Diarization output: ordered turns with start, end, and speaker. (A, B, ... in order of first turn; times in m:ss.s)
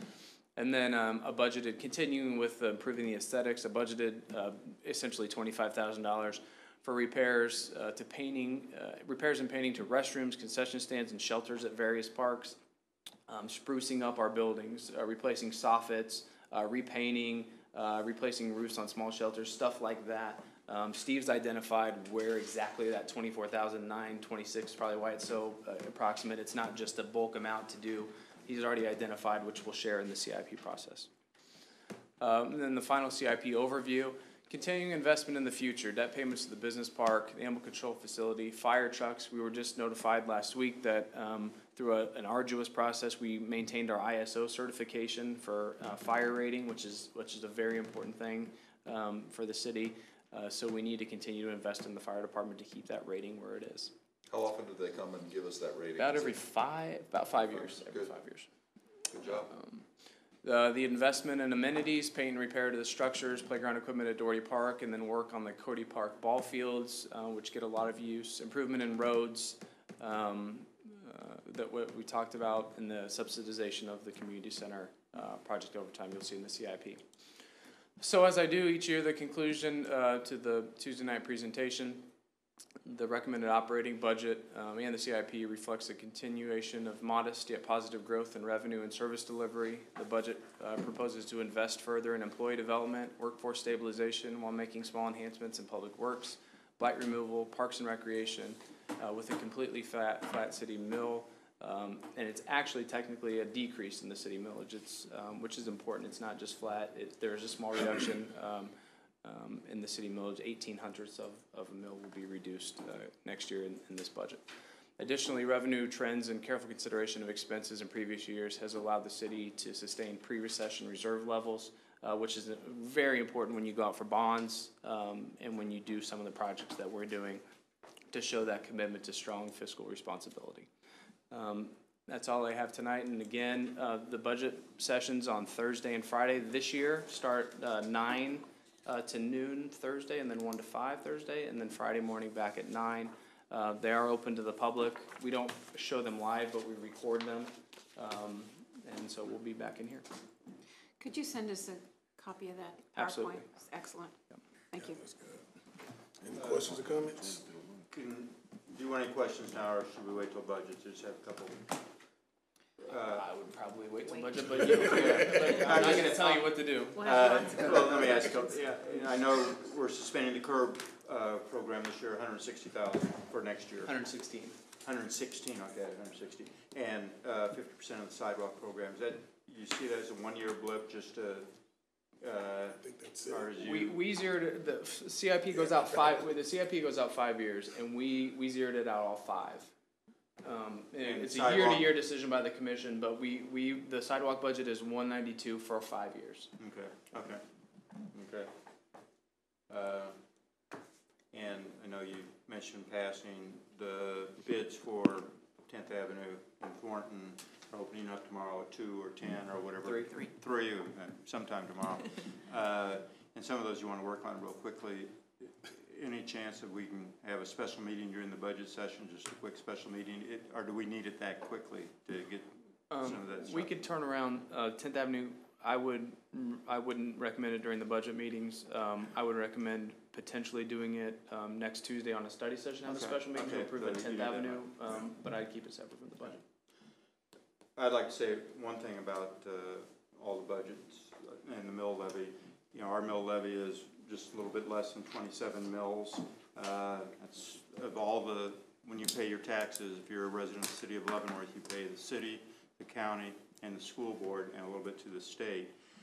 0:00.6-0:12.6 A
0:13.3-0:31.1 A
0:32.2-0:53.9 A
0:54.3-0:56.4 B
0:56.0-0:58.5 A
0:57.5-0:58.1 B
0:59.1-0:59.5 B
0:59.3-0:59.8 A
1:00.4-1:17.0 A
1:18.0-1:22.1 A
1:22.8-1:48.7 A
1:49.2-1:54.4 A
1:55.0-2:07.4 A
2:08.1-2:10.7 A
2:11.3-2:30.0 A
2:31.0-2:34.1 C
2:32.9-2:33.4 A
2:34.7-2:35.0 C
2:34.8-2:35.4 D
2:36.2-2:37.4 D
2:36.3-2:36.8 E
2:37.9-2:41.7 E
2:42.9-2:43.3 E
2:43.1-2:47.1 A
2:44.0-2:44.5 C
2:44.6-2:45.2 D
2:44.8-2:53.9 E
2:46.9-2:48.2 C
2:53.8-2:54.6 A
2:54.8-3:01.5 E
3:02.2-3:04.0 E
3:02.8-3:03.5 D
3:03.6-3:09.7 A
3:05.5-3:06.3 D
3:10.4-3:16.5 A
3:11.0-3:11.9 E
3:16.6-3:17.4 E
3:18.1-3:18.5 E
3:19.7-3:20.2 E
3:21.3-3:43.7 E
3:29.8-3:30.3 A
3:42.9-3:56.4 A
3:52.8-3:54.7 E
3:57.8-4:15.7 E